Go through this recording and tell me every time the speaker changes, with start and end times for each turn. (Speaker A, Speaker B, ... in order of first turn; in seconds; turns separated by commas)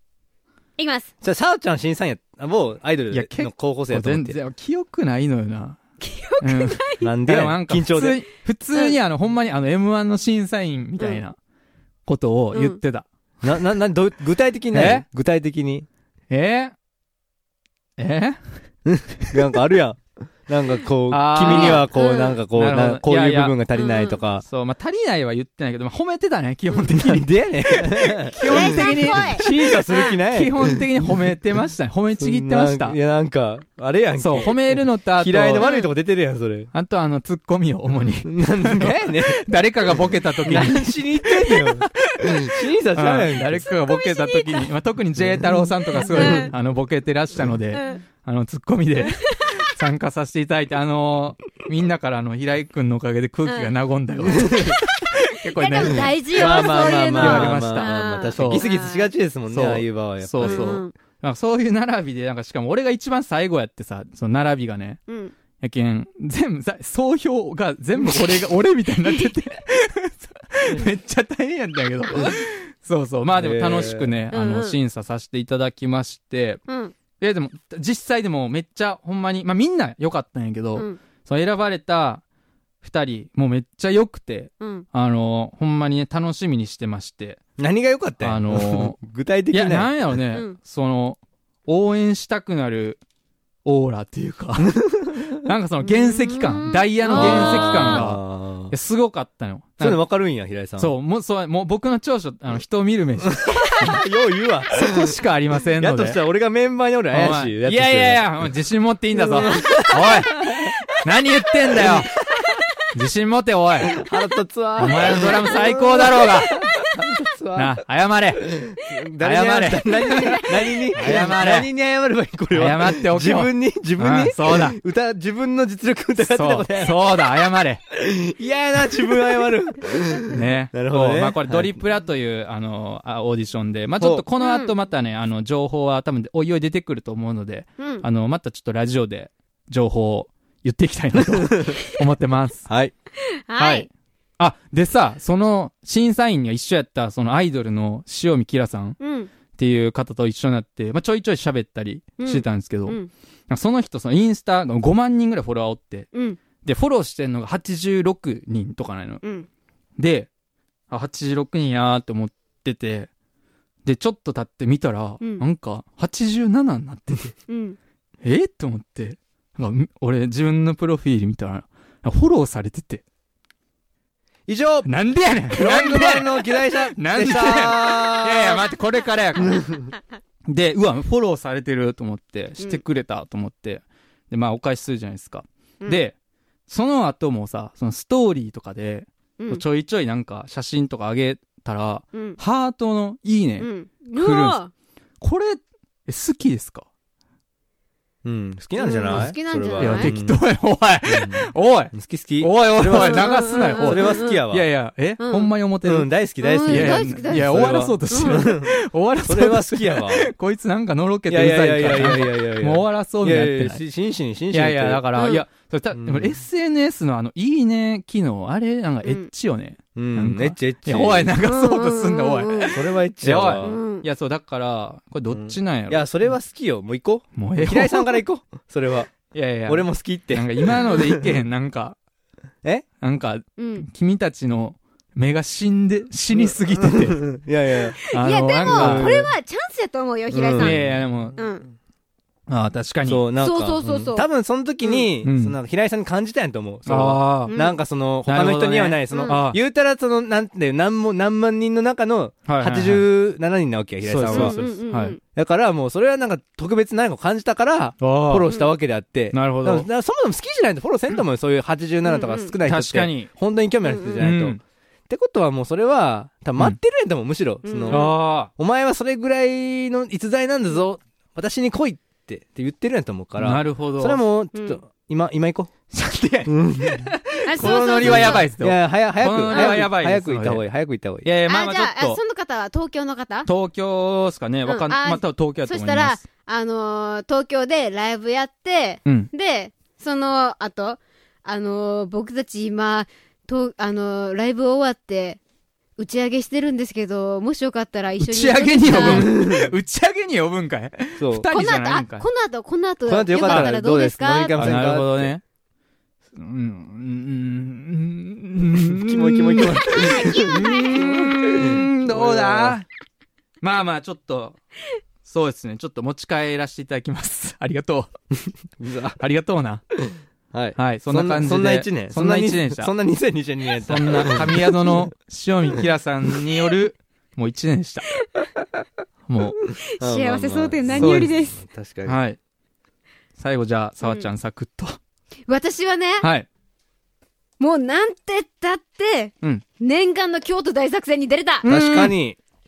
Speaker A: 0.8-1.1, Speaker B: 1.2-4.4, Speaker C: 3.1-5.8, Speaker A: 6.0-7.1, Speaker C: 6.4-11.4, Speaker B: 7.0-8.2, Speaker C: 12.1-13.1, Speaker A: 12.5-12.8, Speaker B: 13.4-15.8, Speaker C: 14.7-15.1, Speaker C: 16.3-16.7, Speaker C: 18.0-18.4, Speaker B: 18.9-24.4, Speaker C: 21.1-21.9, Speaker A: 21.4-22.4, Speaker C: 22.5-23.6, Speaker A: 23.7-24.2, Speaker C: 24.4-29.7, Speaker B: 26.9-30.8, Speaker A: 28.4-30.2, Speaker C: 30.3-33.0, Speaker B: 32.2-36.7, Speaker C: 34.2-35.7, Speaker A: 35.6-35.9, Speaker C: 36.7-58.6, Speaker B: 38.2-39.4, Speaker B: 40.5-43.7, Speaker A: 43.6-44.7, Speaker B: 45.2-46.5, Speaker A: 45.9-46.5, Speaker A: 47.7-48.0, Speaker A: 49.1-49.4, Speaker A: 53.4-53.7, Speaker A: 54.2-54.8, Speaker B: 54.2-54.7, Speaker A: 55.5-59.1, Speaker B: 55.8-60.8, Speaker C: 59.5-65.0, Speaker A: 60.4-60.9, Speaker C: 65.6-76.6, Speaker A: 68.0-68.4, Speaker A: 69.0-69.3, Speaker B: 73.3-74.1, Speaker A: 74.3-74.8, Speaker A: 76.7-76.9, Speaker C: 77.2-82.2, Speaker C: 82.8-87.4, Speaker A: 84.6-84.8, Speaker B: 87.6-90.0, Speaker C: 88.2-89.0, Speaker C: 89.5-93.0, Speaker C: 93.6-100.0, Speaker A: 95.8-98.1, Speaker B: 97.1-98.7, Speaker B: 99.8-100.9, Speaker C: 100.8-104.0, Speaker B: 103.8-105.1, Speaker C: 104.8-106.2, Speaker B: 105.8-108.3, Speaker C: 107.1-112.1, Speaker B: 109.3-110.5, Speaker C: 112.9-114.0, Speaker B: 114.0-117.8, Speaker C: 114.8-116.5, Speaker A: 115.4-116.3, Speaker C: 117.5-118.5, Speaker B: 118.6-127.0, Speaker C: 119.2-121.7, Speaker C: 122.5-124.8, Speaker C: 126.2-127.8, Speaker B: 127.9-131.8, Speaker C: 130.3-142.7, Speaker B: 134.0-134.2, Speaker A: 134.4-134.7, Speaker A: 137.8-138.0, Speaker B: 142.7-142.9, Speaker A: 143.5-143.9, Speaker C: 143.6-143.9, Speaker C: 144.4-149.0, Speaker A: 149.0-149.3, Speaker C: 149.5-156.1, Speaker A: 152.2-153.1, Speaker A: 156.1-156.4, Speaker C: 156.6-159.2, Speaker A: 159.2-159.5, Speaker C: 160.0-160.3, Speaker C: 160.9-163.1, Speaker C: 163.8-167.3, Speaker A: 167.5-167.8, Speaker C: 168.2-173.0, Speaker B: 174.5-174.9, Speaker C: 174.8-179.7, Speaker B: 175.5-178.6, Speaker B: 179.5-179.8, Speaker C: 180.5-186.2, Speaker C: 186.7-194.6, Speaker A: 192.1-192.4, Speaker A: 193.6-194.7, Speaker C: 195.2-196.8, Speaker B: 198.2-200.4, Speaker A: 198.8-200.1, Speaker C: 199.1-206.1, Speaker B: 201.0-204.7, Speaker A: 202.9-204.4, Speaker A: 205.2-205.5, Speaker B: 205.8-208.7, Speaker A: 206.4-208.5, Speaker C: 206.6-213.8, Speaker B: 209.2-210.3, Speaker B: 211.3-215.0, Speaker C: 214.5-226.4, Speaker A: 215.2-215.4, Speaker B: 215.9-216.4, Speaker A: 219.0-219.3, Speaker B: 219.9-221.3, Speaker A: 221.4-222.8, Speaker B: 222.7-223.7, Speaker A: 223.6-224.1, Speaker B: 225.3-231.4, Speaker C: 227.3-228.2, Speaker C: 229.3-232.0, Speaker C: 233.0-237.2, Speaker A: 233.6-233.8, Speaker B: 236.3-238.0, Speaker C: 238.1-239.2, Speaker A: 238.1-241.7, Speaker B: 238.6-239.3, Speaker B: 240.3-240.9, Speaker C: 240.6-241.4, Speaker C: 242.5-243.2, Speaker B: 243.0-254.8, Speaker A: 243.4-244.3, Speaker C: 245.2-245.6, Speaker C: 246.9-247.5, Speaker A: 247.5-247.8, Speaker C: 248.2-249.6, Speaker A: 249.1-249.4, Speaker C: 252.4-253.1, Speaker C: 254.0-255.2, Speaker A: 254.3-255.2, Speaker B: 255.3-275.7, Speaker C: 258.0-258.5, Speaker A: 258.5-258.7, Speaker C: 259.3-259.9, Speaker A: 262.0-262.5, Speaker C: 262.6-263.3, Speaker A: 263.8-264.3, Speaker C: 264.2-264.6, Speaker A: 267.6-268.1, Speaker C: 267.9-268.5, Speaker C: 273.4-274.2, Speaker A: 274.5-274.8, Speaker C: 275.9-280.6, Speaker B: 276.4-277.1, Speaker A: 277.4-278.5, Speaker B: 277.6-281.3, Speaker A: 279.5-279.8, Speaker C: 281.2-282.2, Speaker A: 281.4-283.5, Speaker C: 283.4-286.2, Speaker A: 284.6-295.4, Speaker A: 296.0-299.6, Speaker C: 298.2-302.2, Speaker B: 299.0-299.6, Speaker B: 301.2-301.5, Speaker A: 301.5-304.7, Speaker B: 303.1-305.3, Speaker C: 303.4-303.7, Speaker C: 304.5-305.4, Speaker C: 306.3-312.9, Speaker B: 308.8-310.7, Speaker A: 309.8-311.3, Speaker B: 311.4-312.8, Speaker C: 313.6-314.6, Speaker C: 315.2-318.1, Speaker B: 318.8-319.2, Speaker C: 319.2-319.8, Speaker B: 320.5-325.0, Speaker C: 320.8-322.9, Speaker C: 323.9-328.1, Speaker C: 329.3-329.6, Speaker A: 329.6-331.6, Speaker B: 330.0-332.2, Speaker C: 330.9-331.3, Speaker C: 332.1-332.4, Speaker C: 333.4-335.0, Speaker A: 334.0-334.3, Speaker A: 335.5-336.3, Speaker C: 336.2-336.5, Speaker A: 337.6-341.7, Speaker C: 341.6-342.1, Speaker B: 341.6-342.4